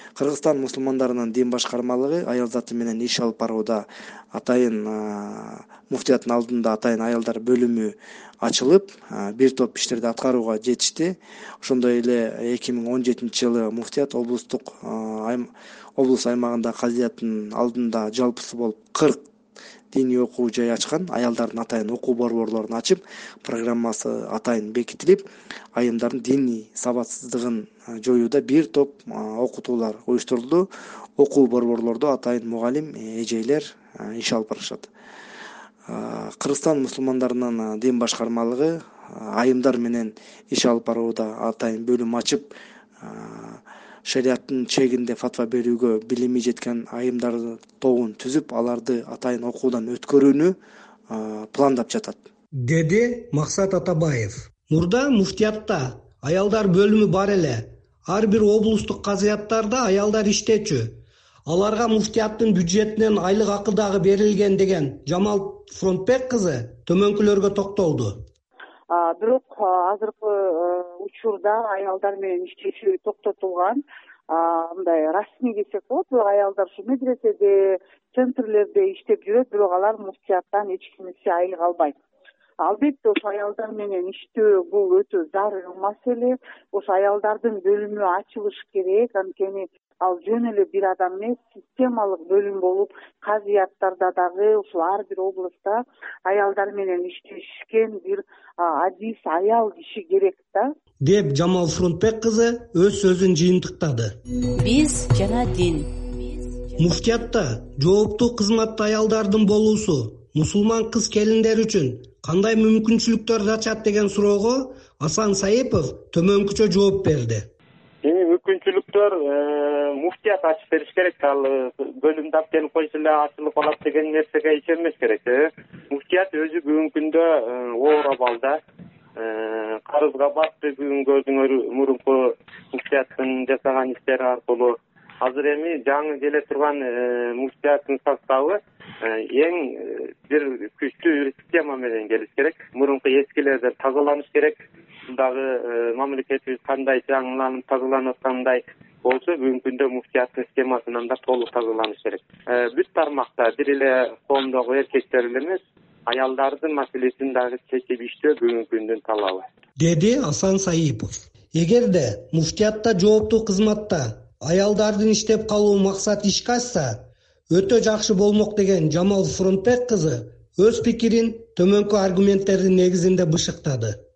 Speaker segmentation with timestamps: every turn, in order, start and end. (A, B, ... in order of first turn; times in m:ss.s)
0:00.2-0:19.2 A
0:19.9-0:25.2 A
0:25.8-0:30.6 A
0:31.2-0:34.9 A
0:35.9-0:50.5 A
0:51.1-0:52.2 A
0:52.6-1:00.9 B
1:01.5-1:08.1 B
1:08.9-1:22.0 C
1:22.6-1:40.7 C
1:41.0-1:44.1 B
1:44.5-1:47.3 D
1:46.8-1:57.5 B
1:58.0-2:08.6 E
2:09.2-2:24.6 E
2:25.1-2:39.4 E
2:39.8-2:47.0 B
2:47.5-2:54.0 B